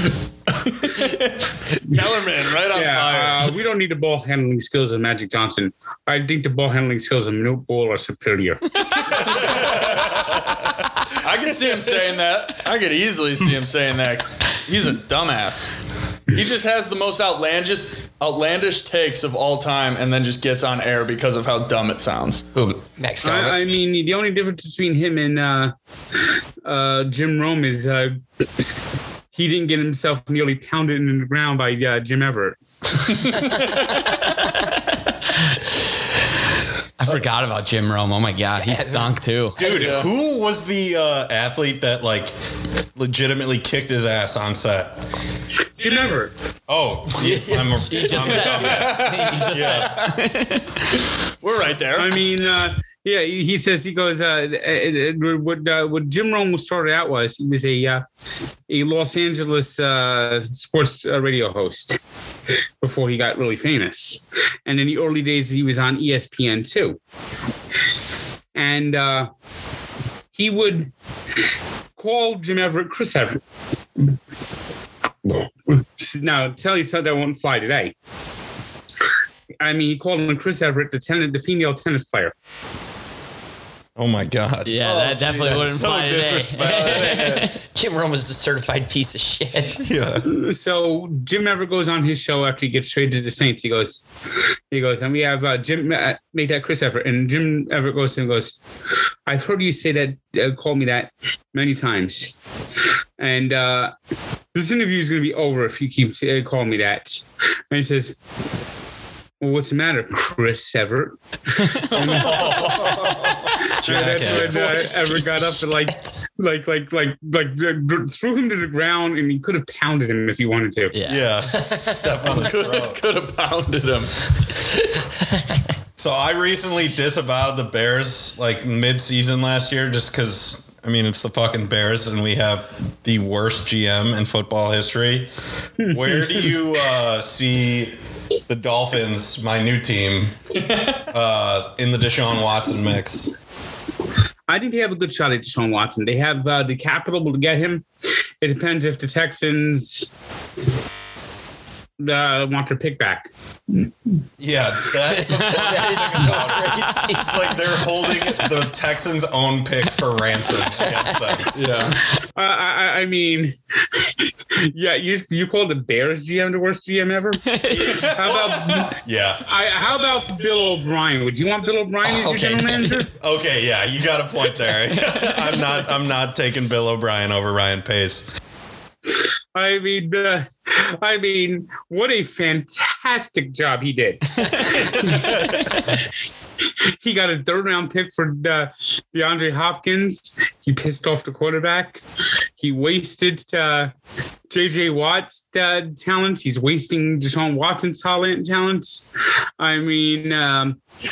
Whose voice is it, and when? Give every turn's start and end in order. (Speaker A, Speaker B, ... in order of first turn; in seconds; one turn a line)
Speaker A: 0.6-3.6
Speaker B: 2.7-9.6
Speaker C: 9.4-10.3
Speaker A: 11.2-15.7
Speaker A: 16.3-22.5
Speaker D: 22.6-23.6
Speaker B: 23.2-28.2
Speaker B: 29.3-33.3
Speaker E: 37.0-39.6
Speaker D: 38.6-39.1
Speaker C: 39.6-42.3
Speaker A: 39.6-40.1
Speaker C: 43.0-45.0
Speaker B: 45.8-46.3
Speaker C: 46.7-50.0
Speaker E: 47.7-51.0
Speaker A: 48.2-49.9
Speaker A: 51.4-52.2
Speaker B: 52.0-58.0
Speaker B: 58.7-62.0
Speaker B: 62.8-67.0
Speaker B: 68.5-69.3
Speaker B: 70.3-70.9
Speaker B: 72.0-73.4
Speaker B: 75.2-78.0
Speaker B: 79.6-82.3
Speaker C: 84.0-87.3
Speaker E: 84.7-87.5
Speaker A: 84.8-85.8
Speaker A: 86.7-87.5
Speaker D: 87.7-89.8
Speaker C: 89.8-90.3
Speaker B: 90.2-94.1
Speaker B: 94.7-98.6
Speaker B: 99.3-102.4
Speaker B: 103.2-103.9
Speaker B: 104.5-108.2
Speaker B: 109.4-113.0
Speaker E: 111.6-113.2
Speaker C: 111.9-114.9
Speaker B: 113.6-121.0
Speaker D: 115.1-115.6
Speaker E: 120.9-121.3
Speaker C: 121.1-123.0
Speaker D: 121.6-122.1
Speaker A: 122.2-124.3
Speaker C: 126.0-135.3
Speaker B: 135.8-136.5
Speaker C: 135.8-137.9
Speaker C: 138.5-140.4
Speaker A: 140.6-141.0
Speaker C: 141.1-143.3
Speaker B: 144.5-147.9
Speaker B: 148.4-150.1
Speaker B: 152.0-153.9
Speaker C: 154.4-161.5
Speaker D: 155.1-157.6
Speaker A: 161.5-162.0
Speaker B: 162.1-173.1
Speaker E: 167.5-168.1
Speaker C: 167.9-169.4
Speaker D: 172.1-173.0
Speaker C: 173.2-178.3
Speaker B: 179.1-186.0
Speaker B: 186.6-192.0
Speaker B: 192.6-193.9
Speaker B: 194.5-199.1
Speaker B: 199.6-200.8